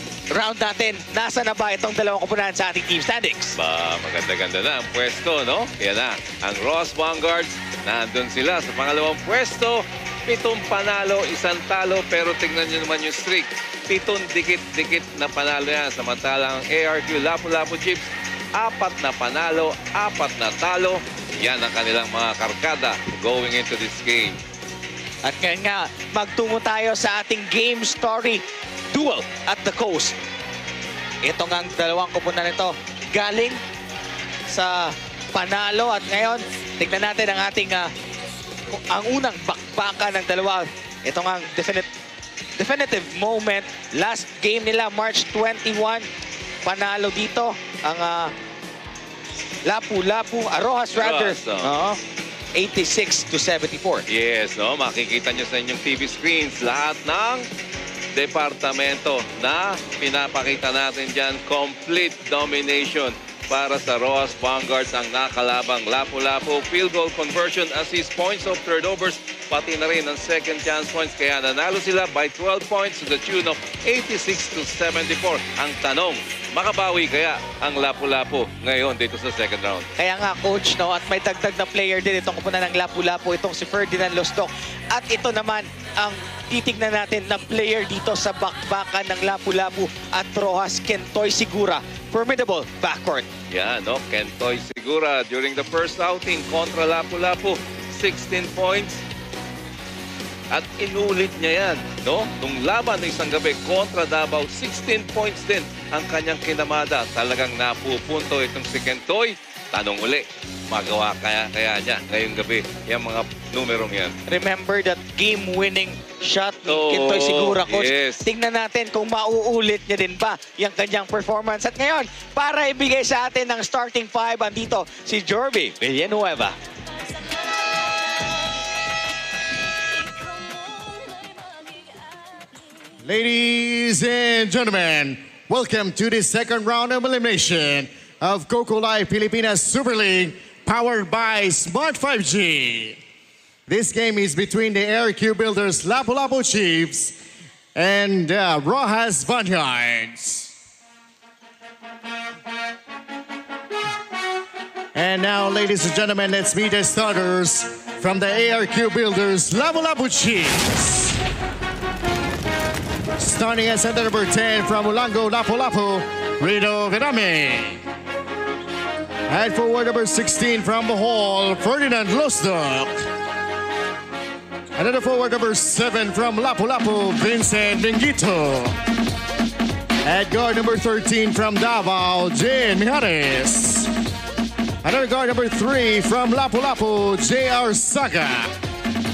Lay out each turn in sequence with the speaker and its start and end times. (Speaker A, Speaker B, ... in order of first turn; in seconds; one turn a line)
Speaker A: 0.3-3.5
Speaker B: 3.5-24.4
Speaker A: 25.2-30.1
Speaker A: 31.2-33.6
Speaker A: 34.5-37.9
Speaker A: 38.7-41.9
Speaker A: 42.6-46.0
Speaker A: 46.6-48.3
Speaker A: 49.6-52.0
Speaker B: 50.9-51.7
Speaker A: 52.5-54.0
Speaker B: 54.1-57.5
Speaker B: 58.1-79.9
Speaker A: 80.0-93.3
Speaker B: 93.5-99.0
Speaker B: 100.5-114.1
Speaker A: 114.2-126.5
Speaker B: 116.7-118.2
Speaker C: 133.0-143.0
Speaker C: 143.7-147.1
Speaker C: 147.7-150.5
Speaker C: 154.9-161.0
Speaker C: 163.2-167.8
Speaker C: 169.3-173.0
Speaker C: 174.8-178.7
Speaker C: 180.0-183.9
Speaker C: 184.8-188.5